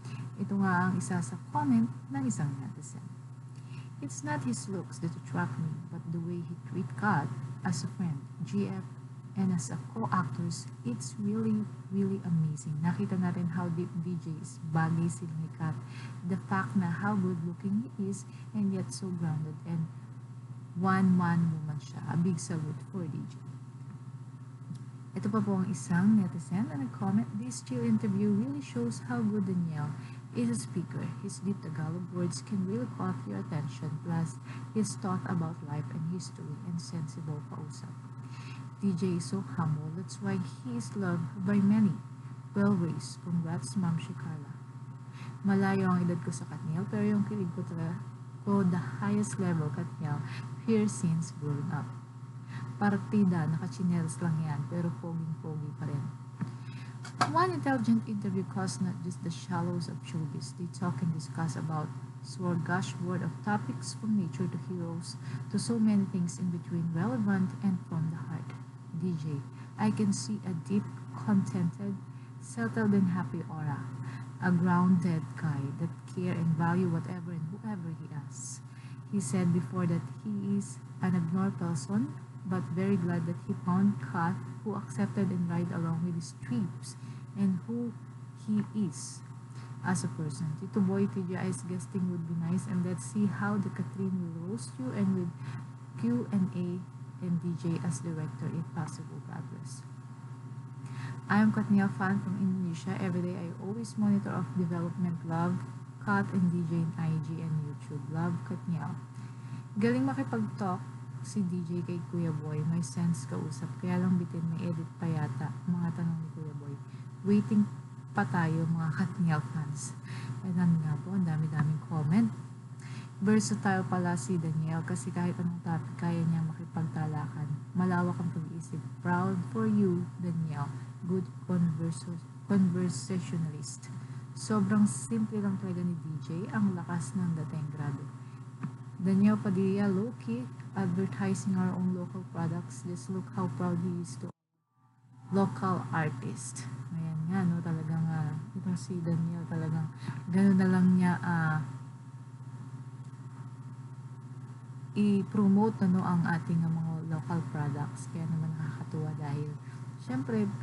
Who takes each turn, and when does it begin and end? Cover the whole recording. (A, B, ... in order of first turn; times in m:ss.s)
0:00.4-0:03.1 A
0:04.0-0:19.9 A
0:20.8-0:23.5 A
0:25.1-0:38.0 A
0:38.8-0:42.0 A
0:42.5-0:44.6 A
0:45.4-0:51.9 A
0:52.8-0:56.1 A
0:57.2-1:13.9 A
1:14.4-1:29.2 A
1:29.8-1:35.3 A
1:36.0-1:39.9 A
1:41.3-1:49.0 A
1:49.8-2:02.3 A
2:03.2-2:18.1 A
2:19.0-2:24.4 A
2:25.3-2:31.7 A
2:35.0-2:40.5 A